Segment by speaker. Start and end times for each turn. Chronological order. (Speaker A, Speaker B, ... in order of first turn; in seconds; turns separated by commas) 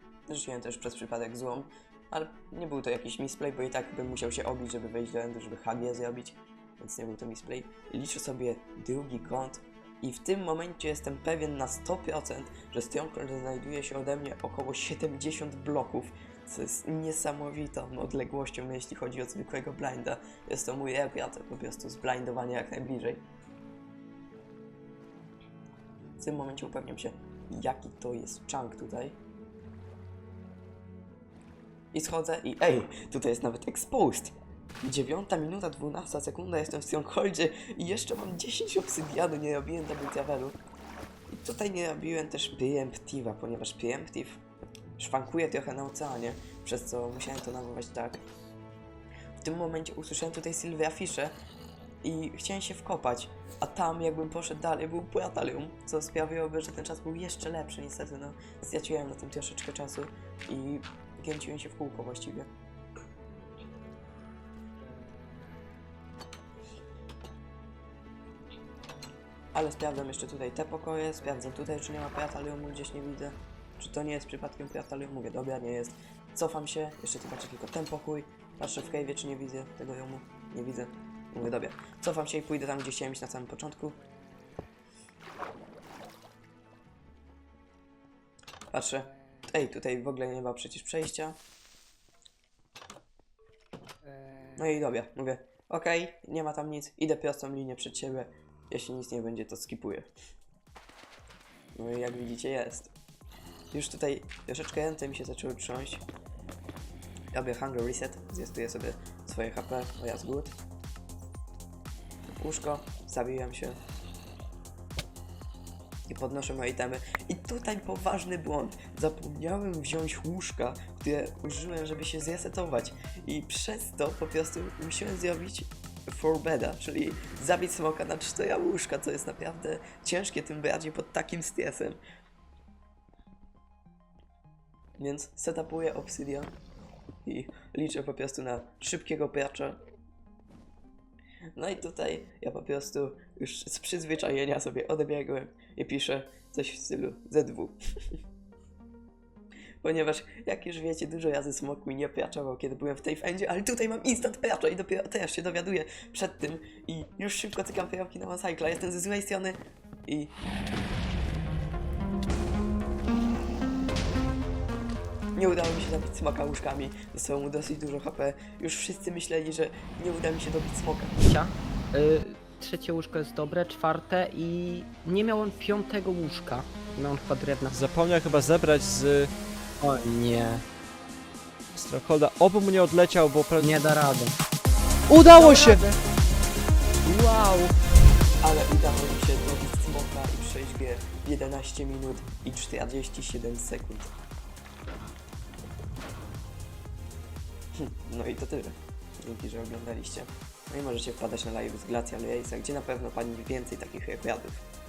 Speaker A: 0.3-23.2, Speaker A: 26.2-29.2, Speaker A: 31.9-40.6, Speaker A: 41.3-44.4, Speaker A: 45.0-48.2, Speaker A: 49.4-51.4, Speaker A: 52.0-62.5, Speaker A: 69.5-84.0, Speaker A: 88.7-91.4, Speaker A: 94.5-100.1, Speaker A: 101.8-102.9, Speaker A: 103.7-106.0, Speaker A: 107.3-110.6, Speaker A: 112.3-113.8, Speaker A: 116.1-132.0, Speaker A: 135.0-136.5, Speaker A: 137.2-139.8, Speaker A: 141.6-147.8, Speaker A: 149.8-160.3, Speaker A: 165.4-171.1, Speaker B: 171.2-177.8, Speaker C: 177.7-179.3, Speaker B: 179.8-180.6, Speaker C: 181.8-183.8, Speaker B: 183.6-184.4, Speaker C: 185.1-185.9, Speaker B: 185.3-186.0, Speaker B: 187.1-187.7, Speaker A: 188.4-194.1, Speaker A: 197.8-204.6